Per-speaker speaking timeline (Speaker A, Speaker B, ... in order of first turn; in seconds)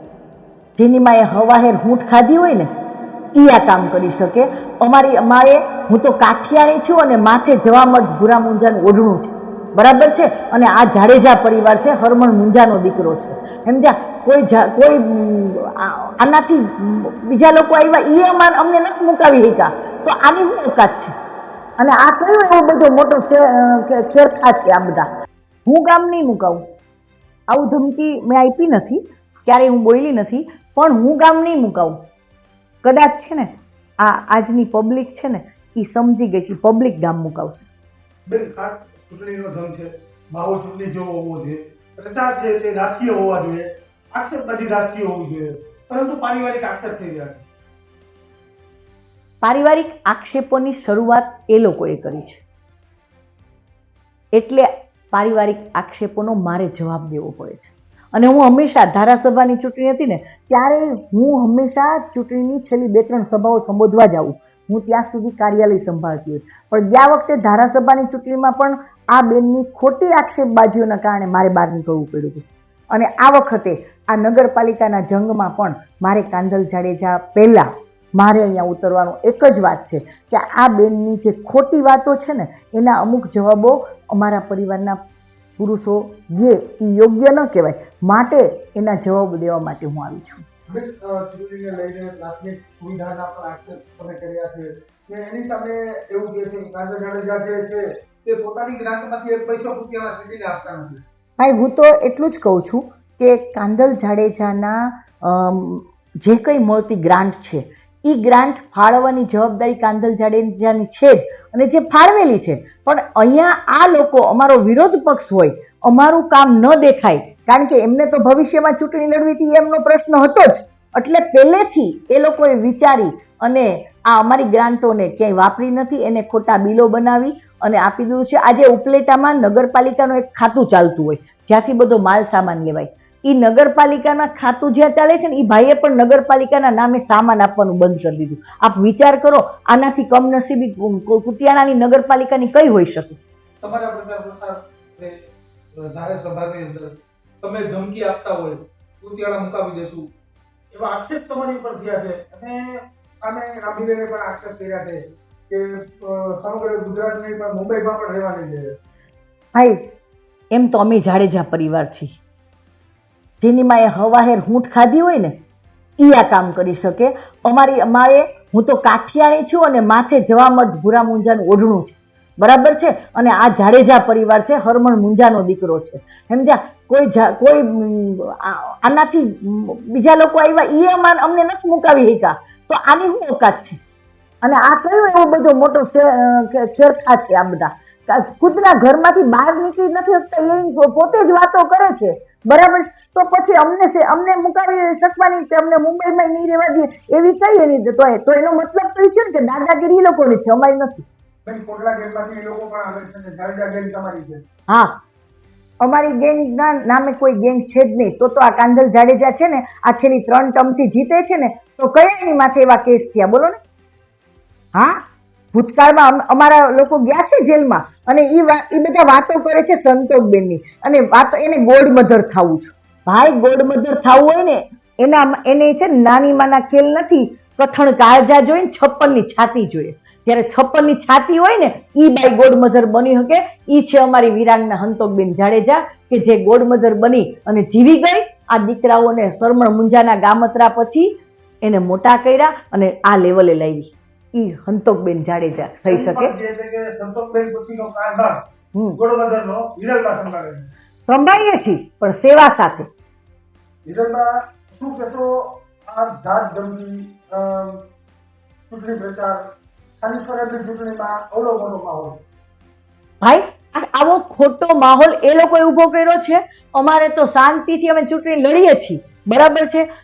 Speaker A: 0.8-2.7, 3.4-21.1, 21.8-25.1, 25.7-26.6, 27.5-32.0, 32.8-37.7, 49.4-52.4, 54.3-85.0, 85.6-90.5, 101.4-143.2, 159.5-159.8, 160.5-162.2, 163.4-165.4, 166.0-183.8, 184.4-201.1, 204.7-204.9, 205.8-213.6, 214.7-215.0, 215.5-241.1, 241.6-246.3, 251.1-252.9, 263.2-269.9
Speaker B: 38.3-47.5, 90.7-101.0, 143.6-145.2, 145.8-150.1, 150.7-158.7, 201.4-204.4, 245.9-248.4, 249.0-250.7, 253.9-255.3, 255.9-257.8, 258.7-259.4, 260.0-262.2